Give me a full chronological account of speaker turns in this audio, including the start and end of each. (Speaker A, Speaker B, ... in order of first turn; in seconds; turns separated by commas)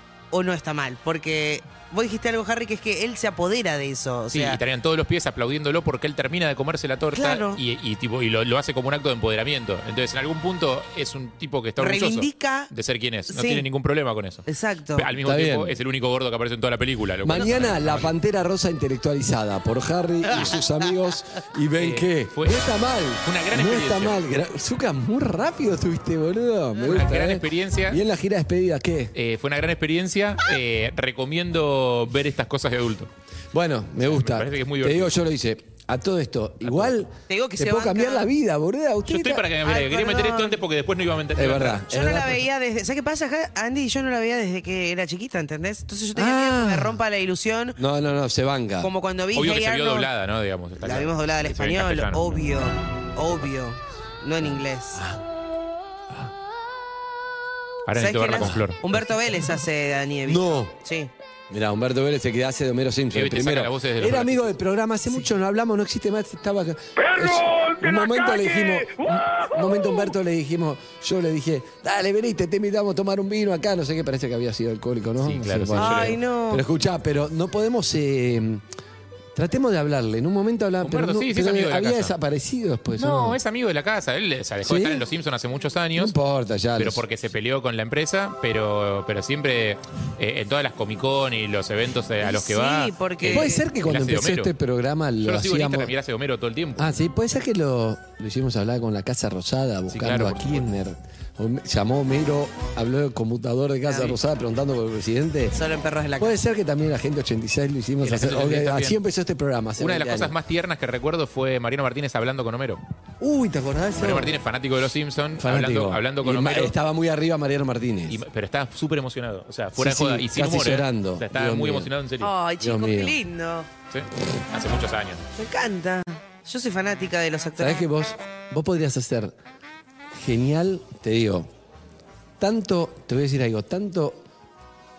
Speaker A: 0.3-4.6, Speaker B: 4.3-18.1, Speaker A: 7.1-7.6, Speaker A: 11.8-12.7, Speaker A: 13.3-13.6, Speaker A: 14.5-15.1, Speaker C: 15.2-15.8, Speaker C: 17.2-29.1, Speaker B: 21.8-22.7, Speaker B: 23.2-24.1, Speaker B: 26.8-28.0, Speaker B: 29.1-33.1, Speaker C: 33.5-39.5, Speaker B: 34.0-35.2, Speaker A: 37.3-38.3, Speaker B: 39.1-41.8, Speaker A: 39.6-40.6, Speaker C: 41.4-42.4, Speaker A: 41.8-47.8, Speaker C: 46.1-47.0, Speaker C: 47.8-48.9, Speaker A: 48.8-50.1, Speaker B: 49.3-52.4, Speaker A: 50.8-55.0, Speaker C: 54.9-55.2, Speaker B: 57.9-58.8, Speaker A: 58.0-61.1, Speaker C: 58.4-58.6, Speaker C: 60.2-60.7, Speaker C: 61.5-78.6, Speaker B: 63.1-64.5, Speaker B: 75.2-76.2, Speaker A: 75.7-76.6, Speaker C: 79.3-83.4, Speaker B: 80.8-82.1, Speaker B: 83.0-86.1, Speaker C: 84.6-85.0, Speaker C: 86.0-87.0, Speaker B: 86.8-94.5, Speaker A: 92.2-93.6, Speaker C: 93.2-95.9, Speaker B: 95.2-96.9, Speaker C: 96.8-105.6, Speaker B: 99.9-100.7, Speaker A: 103.8-104.2, Speaker A: 105.5-106.4, Speaker C: 106.2-110.3, Speaker B: 108.0-109.0, Speaker B: 109.8-112.8, Speaker C: 113.2-114.3, Speaker B: 114.0-116.7, Speaker C: 115.4-118.2, Speaker B: 118.1-122.3, Speaker C: 119.7-121.9, Speaker A: 122.2-123.7, Speaker C: 122.6-123.2, Speaker B: 123.9-125.2, Speaker A: 125.4-127.8, Speaker C: 127.6-129.3, Speaker C: 130.1-131.5, Speaker C: 132.4-134.2